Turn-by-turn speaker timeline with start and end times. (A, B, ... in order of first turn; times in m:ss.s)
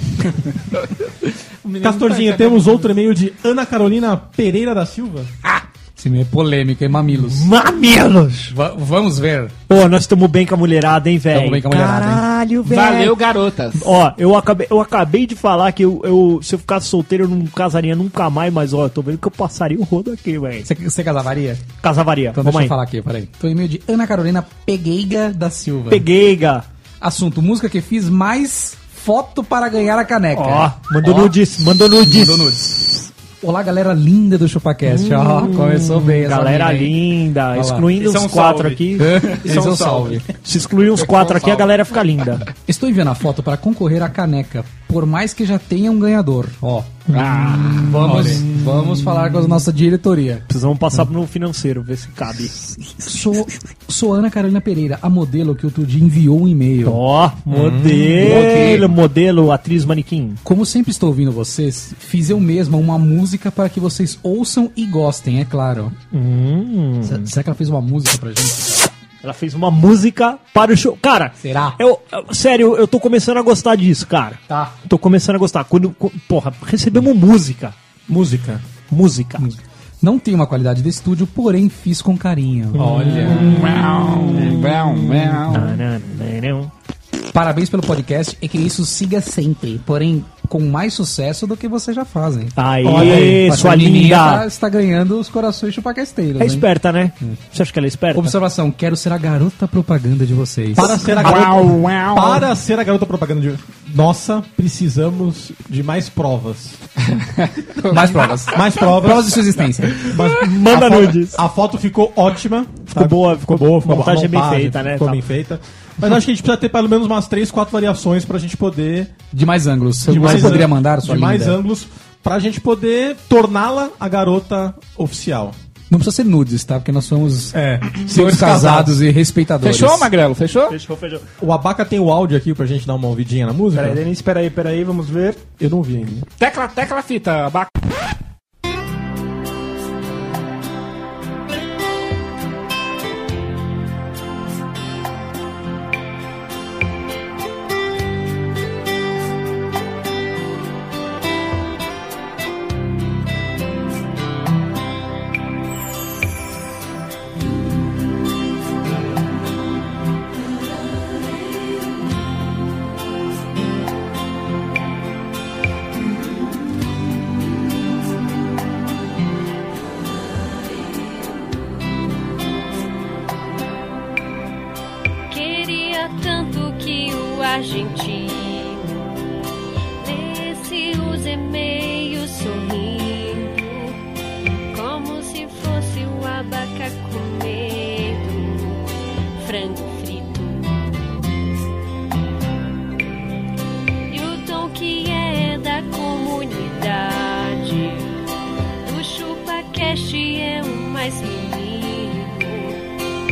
0:01.6-0:02.9 A
0:01.8-0:05.3 B
0:06.0-0:07.5 C
0:07.2-0:08.5 D
0:08.5-0:09.5 C
0:09.7-0:13.2 D
0:11.3-0:12.3 C
0:12.6-0:13.9 A
0:13.8-0:20.7 D
0:20.6-0:21.7 C
0:21.8-0:22.7 D
0:22.3-0:26.0 C
0:25.9-0:26.7 D
0:27.0-0:31.4 C
0:30.3-0:32.6 D
0:32.0-0:37.0 C
0:34.9-0:39.1 D
0:37.5-0:37.9 C
0:38.0-0:38.8 E
0:39.0-0:40.2 C
0:39.4-0:40.2 E
0:40.4-0:42.5 D
0:41.0-0:41.8 A
0:42.7-0:50.4 C
0:47.1-0:49.1 D
0:47.1-0:48.2 A
0:50.5-0:52.6 D
0:53.0-0:57.0 C
0:56.8-1:00.4 D
0:57.5-0:58.2 B
0:58.2-0:58.9 C
1:00.4-1:06.0 C
1:06.1-1:07.3 D
1:07.0-1:08.9 C
1:09.2-1:17.8 D
1:11.4-1:11.8 C
1:14.5-1:14.8 C
1:18.1-1:18.6 B
1:18.9-1:19.5 D
1:19.4-1:23.4 C
1:22.8-1:26.7 D
1:22.9-1:23.1 B
1:23.1-1:25.8 A
1:27.3-1:36.7 C
1:32.6-1:34.4 D
1:32.8-1:33.4 B
1:36.4-1:38.4 D
1:38.2-1:40.9 C
1:40.8-1:46.8 B
1:40.8-1:42.5 A
1:47.1-1:48.6 A
1:47.9-1:50.1 C
1:48.5-1:49.5 B
1:50.0-1:59.1 B
1:50.3-1:51.4 D
1:52.9-1:55.2 D
1:59.3-2:01.6 C
2:00.1-2:05.6 B
2:05.9-2:10.1 C
2:07.5-2:09.0 B
2:09.6-2:10.8 A
2:10.7-2:11.2 D
2:11.4-2:14.0 B
2:13.7-2:15.5 E
2:15.6-2:16.3 B
2:16.4-2:17.7 A
2:55.3-2:59.2 F
3:00.0-3:04.0 F
3:04.7-3:11.1 F
3:14.1-3:18.1 F
3:18.8-3:22.8 F